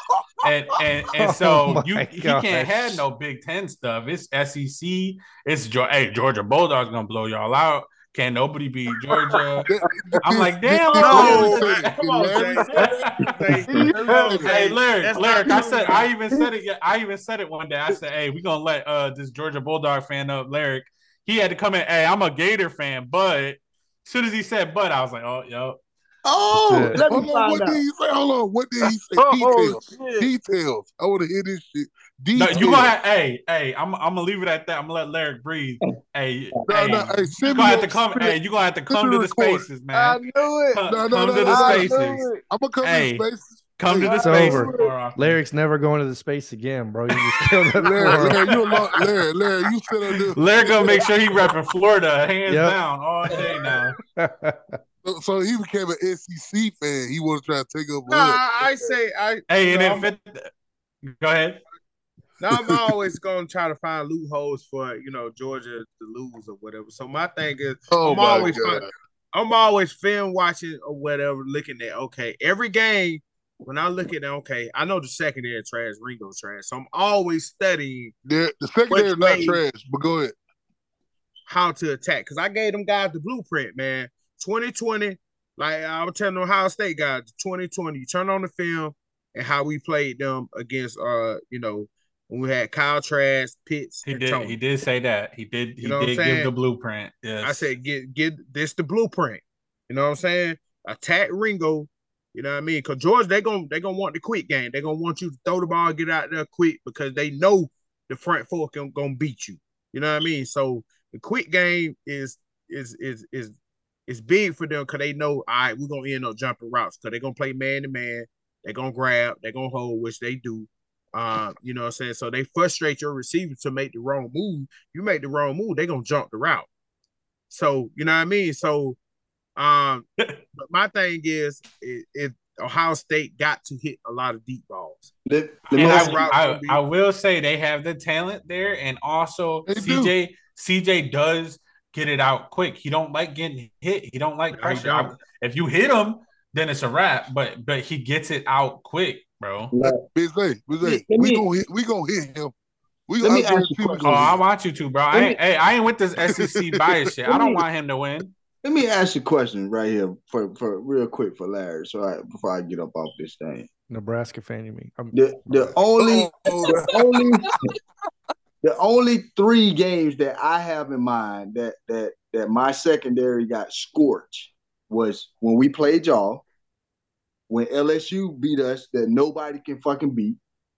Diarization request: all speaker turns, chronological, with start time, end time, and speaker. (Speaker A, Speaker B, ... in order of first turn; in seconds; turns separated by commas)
Speaker A: 0.4-9.7, Speaker B: 1.2-3.0, Speaker C: 9.7-12.9, Speaker A: 10.2-11.9, Speaker D: 10.9-16.1, Speaker A: 12.7-25.8, Speaker C: 13.4-14.5, Speaker E: 26.2-27.8, Speaker B: 26.7-27.0, Speaker C: 27.1-33.0, Speaker F: 28.8-30.3, Speaker A: 32.3-40.2, Speaker C: 36.6-39.7, Speaker F: 39.9-40.8, Speaker A: 40.7-42.2, Speaker C: 40.9-44.6, Speaker F: 41.4-42.4, Speaker A: 42.8-43.3, Speaker A: 43.8-45.4, Speaker B: 44.1-48.4, Speaker C: 47.8-51.1, Speaker D: 48.0-49.1, Speaker A: 50.3-54.0, Speaker B: 52.5-52.8, Speaker B: 54.2-54.8, Speaker C: 55.0-58.9, Speaker D: 58.1-60.1, Speaker A: 59.5-60.5, Speaker A: 61.0-61.6, Speaker D: 62.4-78.1, Speaker C: 62.5-62.8, Speaker C: 67.9-68.9, Speaker C: 78.2-80.3, Speaker D: 78.9-79.6, Speaker D: 81.5-94.6, Speaker A: 94.1-97.7, Speaker D: 95.8-96.5, Speaker D: 97.4-113.5, Speaker D: 114.1-126.7, Speaker D: 127.5-129.0, Speaker D: 129.6-135.1, Speaker E: 135.2-136.3, Speaker D: 135.7-136.8, Speaker A: 135.7-149.7, Speaker C: 139.7-140.1, Speaker D: 144.5-145.2, Speaker E: 149.7-150.0, Speaker C: 150.1-152.5, Speaker E: 150.8-151.4, Speaker C: 153.1-154.4, Speaker E: 153.2-154.3, Speaker A: 154.0-158.3, Speaker E: 155.1-155.4, Speaker C: 156.3-156.9, Speaker E: 157.3-157.7, Speaker E: 158.6-163.7, Speaker B: 163.9-165.7, Speaker E: 165.1-167.6, Speaker C: 166.0-167.1, Speaker E: 168.6-176.4, Speaker E: 177.5-180.4